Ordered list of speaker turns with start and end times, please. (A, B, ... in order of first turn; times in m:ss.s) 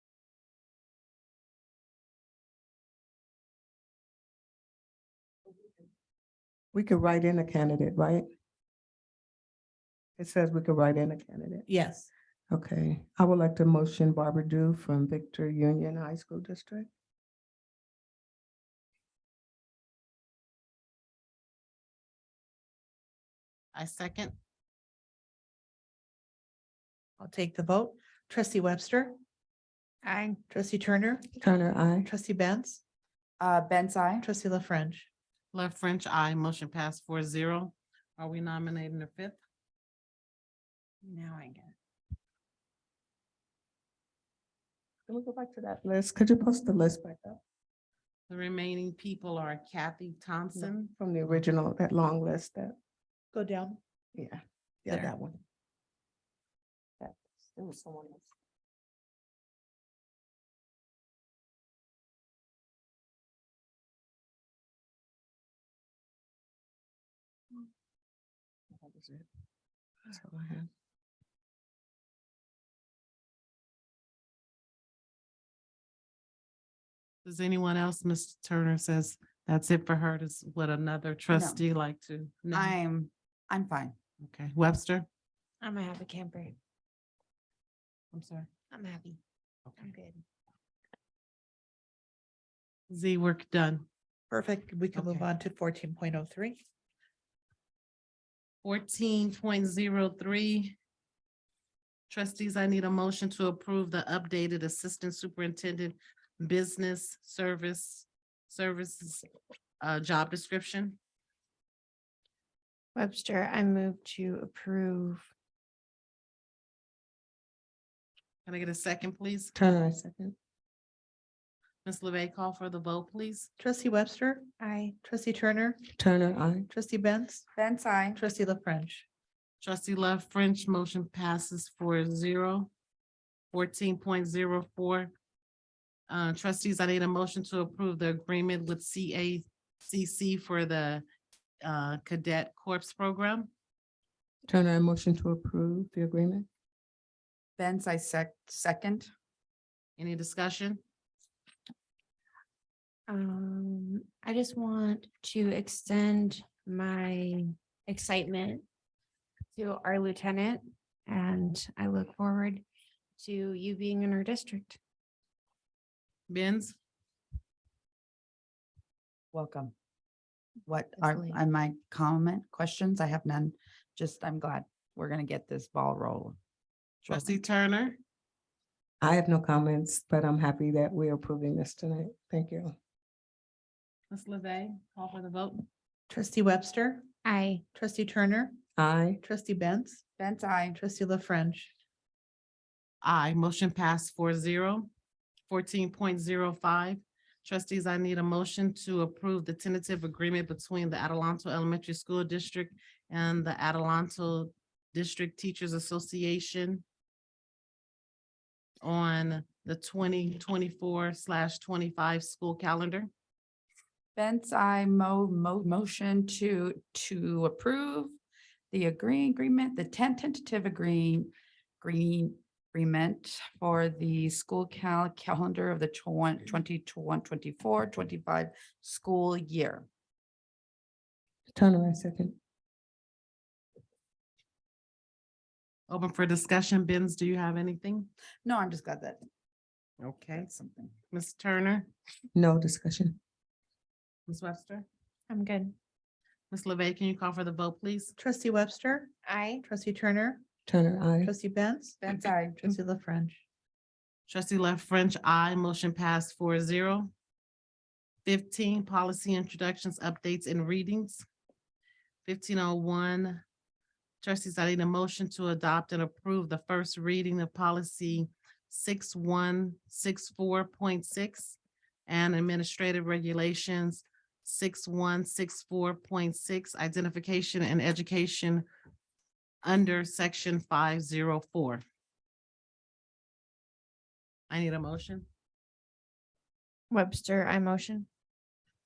0:06.7-0:08.2 A
0:10.2-0:11.6 A
0:11.7-0:12.1 B
0:12.5-0:16.9 A
0:23.7-0:24.3 C
0:27.2-0:29.1 B
0:30.0-0:30.4 D
0:30.5-0:31.2 B
0:31.3-0:32.1 A
0:32.0-0:32.8 B
0:33.4-0:34.2 E
0:34.2-0:35.1 B
0:35.5-0:39.4 C
0:41.0-0:41.7 D
0:45.1-0:47.4 A
0:48.3-0:50.9 C
0:50.6-0:52.7 A
0:53.3-0:53.8 B
0:54.1-0:55.4 A
0:54.9-0:55.2 B
0:57.0-0:58.3 A
1:08.7-1:09.3 A
1:10.0-1:10.7 A
1:17.2-1:22.8 C
1:21.3-1:21.6 E
1:22.5-1:23.9 E
1:24.2-1:25.0 C
1:25.6-1:26.6 D
1:28.1-1:28.5 C
1:28.7-1:29.2 D
1:29.8-1:30.2 D
1:32.9-1:33.8 C
1:34.3-1:36.6 B
1:34.9-1:35.2 C
1:38.6-1:40.8 C
1:42.1-1:49.3 C
1:49.8-1:51.0 C
1:52.9-1:55.2 D
1:58.4-1:59.5 C
1:59.5-2:00.3 A
2:01.8-2:03.5 C
2:03.6-2:04.4 B
2:04.6-2:04.9 D
2:05.0-2:05.8 B
2:06.0-2:06.7 A
2:06.7-2:07.4 B
2:07.5-2:08.2 E
2:08.1-2:09.0 B
2:09.6-2:12.7 C
2:13.5-2:15.1 C
2:16.1-2:21.0 C
2:21.6-2:23.5 C
2:24.5-2:26.5 A
2:27.6-2:29.1 E
2:30.0-2:30.8 C
2:33.1-2:38.6 D
2:39.5-2:42.6 D
2:43.2-2:44.8 D
2:46.3-2:46.8 C
2:49.3-2:49.7 E
2:50.7-2:56.4 E
2:51.0-2:51.4 D
2:57.0-2:57.4 E
2:57.1-2:58.0 C
2:59.0-3:02.7 A
3:04.1-3:05.6 C
3:06.1-3:07.0 B
3:07.2-3:07.6 D
3:07.7-3:08.5 B
3:08.8-3:09.2 A
3:09.2-3:10.0 B
3:10.2-3:10.8 E
3:10.7-3:11.7 B
3:13.0-3:14.9 C
3:15.5-3:26.8 C
3:28.8-3:33.1 C
3:34.2-3:38.2 E
3:38.7-3:41.3 E
3:41.8-3:49.8 E
3:51.5-3:52.4 A
3:55.9-3:58.1 C
3:58.4-3:59.2 E
4:00.0-4:00.5 C
4:00.3-4:00.9 E
4:01.1-4:01.9 C
4:02.3-4:03.2 A
4:04.3-4:04.9 C
4:05.3-4:05.8 D
4:06.5-4:08.1 C
4:08.2-4:09.1 B
4:09.2-4:09.6 D
4:09.6-4:10.4 B
4:10.7-4:11.3 A
4:11.2-4:13.4 B
4:12.0-4:12.7 E
4:14.3-4:17.1 C
4:18.2-4:21.2 C
4:22.2-4:23.4 C
4:24.2-4:38.6 C
4:39.6-4:41.8 C
4:44.5-4:45.3 C
4:46.9-4:48.1 D